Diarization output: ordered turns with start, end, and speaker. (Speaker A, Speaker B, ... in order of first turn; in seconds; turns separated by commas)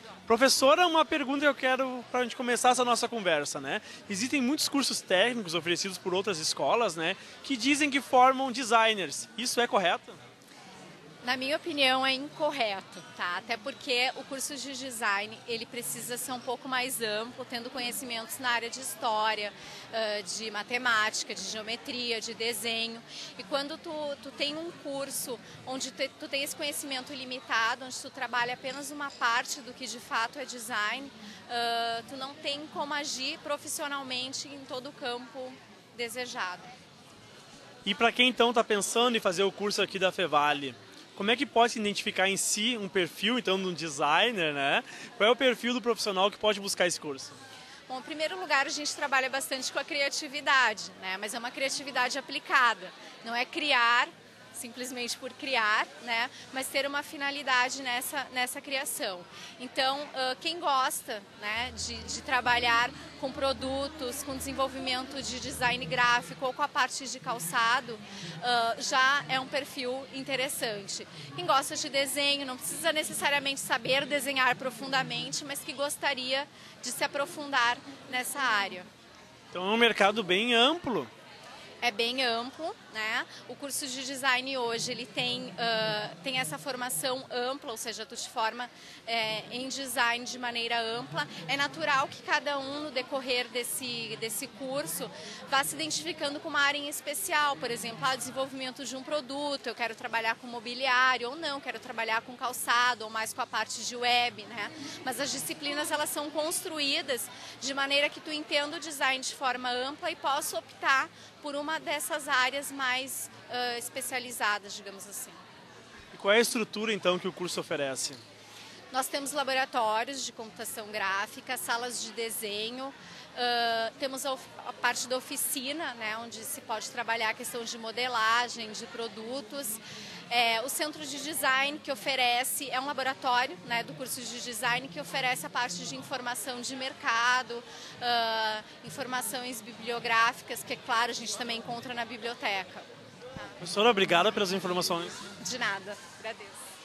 Speaker A: 0.3-10.2, Speaker B: 11.2-36.7, Speaker A: 37.8-47.4, Speaker B: 47.9-78.9, Speaker A: 79.5-81.1, Speaker B: 81.8-115.4, Speaker A: 116.1-118.2, Speaker B: 118.9-142.9, Speaker A: 143.6-145.2, Speaker B: 145.4-146.6